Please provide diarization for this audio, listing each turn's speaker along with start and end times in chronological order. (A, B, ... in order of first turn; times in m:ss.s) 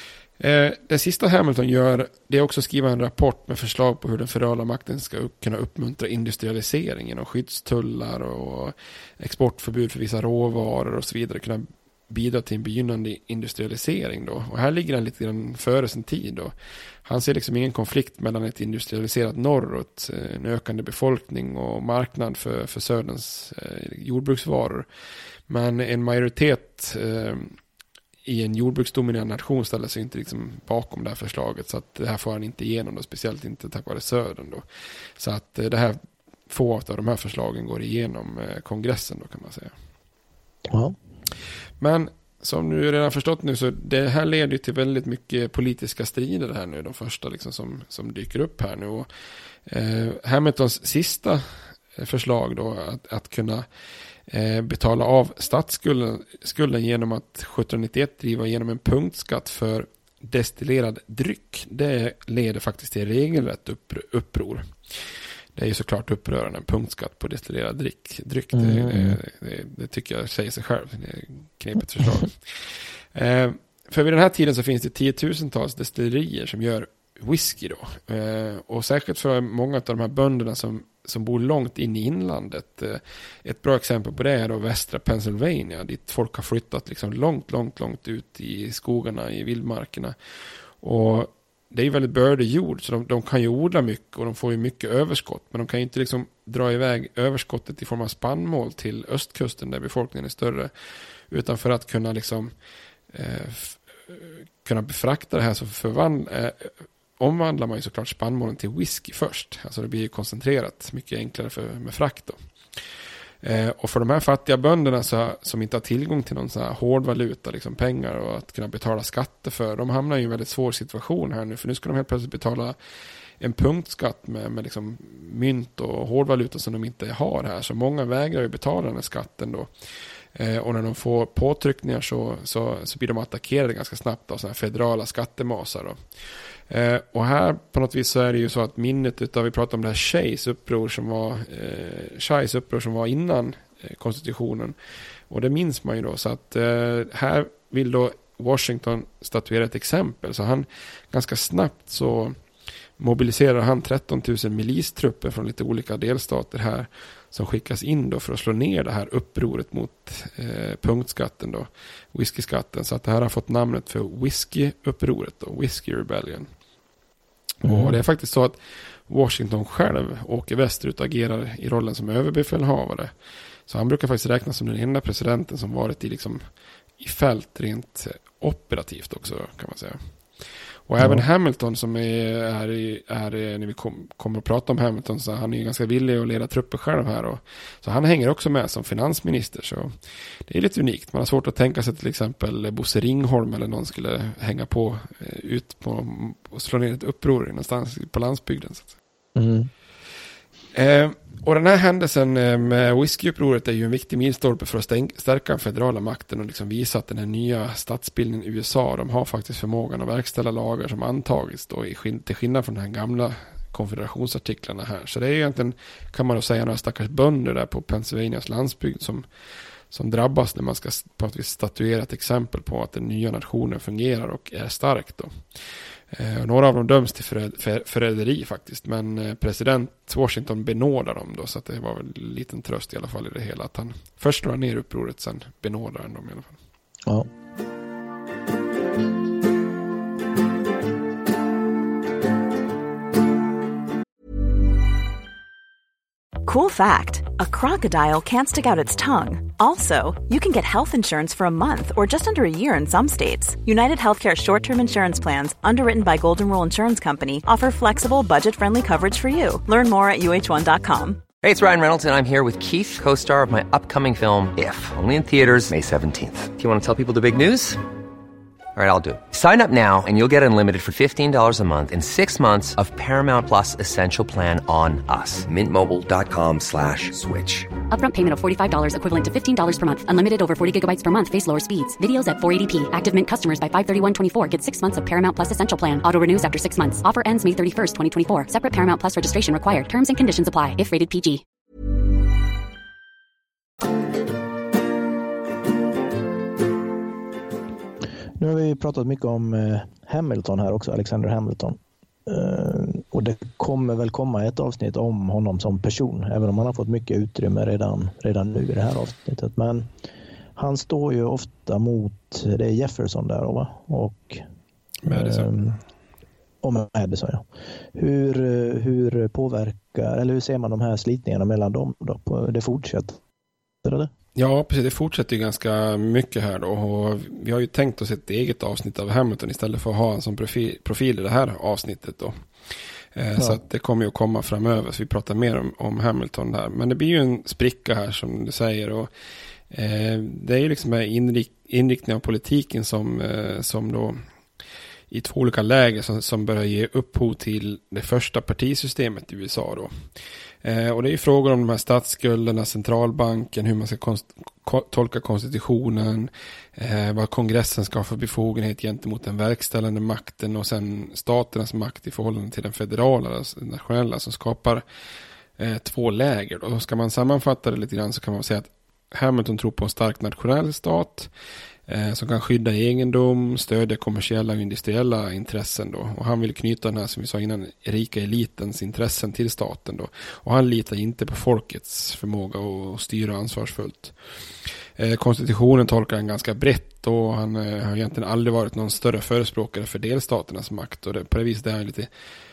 0:00.4-0:16.5 A
0:17.0-0:24.9 A
0:25.5-0:27.6 A
0:28.2-0:34.6 A
0:35.2-0:39.7 A
0:40.7-0:41.0 B
0:41.8-0:49.1 A
0:49.7-0:53.7 A
0:54.3-1:04.7 A
1:05.6-1:30.2 A
1:08.5-1:09.2 B
1:30.8-1:40.7 A
1:41.3-1:42.5 A
1:43.1-1:52.4 A
1:53.4-2:02.8 A
2:03.4-2:09.7 A
2:10.4-2:24.8 A
2:25.3-2:32.4 A
2:33.0-2:46.5 A
2:47.6-2:53.1 A
2:47.6-2:48.0 B
2:53.7-2:56.4 A
2:57.0-3:00.0 A
3:00.9-3:09.9 A
3:10.5-3:18.9 A
3:19.4-3:19.7 B
3:20.7-3:39.3 A
3:39.9-3:45.4 A
3:46.1-3:56.6 A
4:06.4-4:21.3 C
4:21.4-4:27.8 D
4:28.8-4:37.7 D
4:37.9-4:51.4 E
4:58.4-5:09.9 B
5:10.6-5:14.4 B
5:15.0-5:15.5 A
5:15.1-5:15.8 B
5:16.6-5:23.2 B
5:23.8-5:24.1 B
5:24.4-5:32.4 A
5:33.2-5:39.1 A
5:39.7-5:44.2 A
5:45.1-5:50.0 A
5:50.6-6:04.8 A
6:05.6-6:11.3 A
6:11.9-6:32.1 A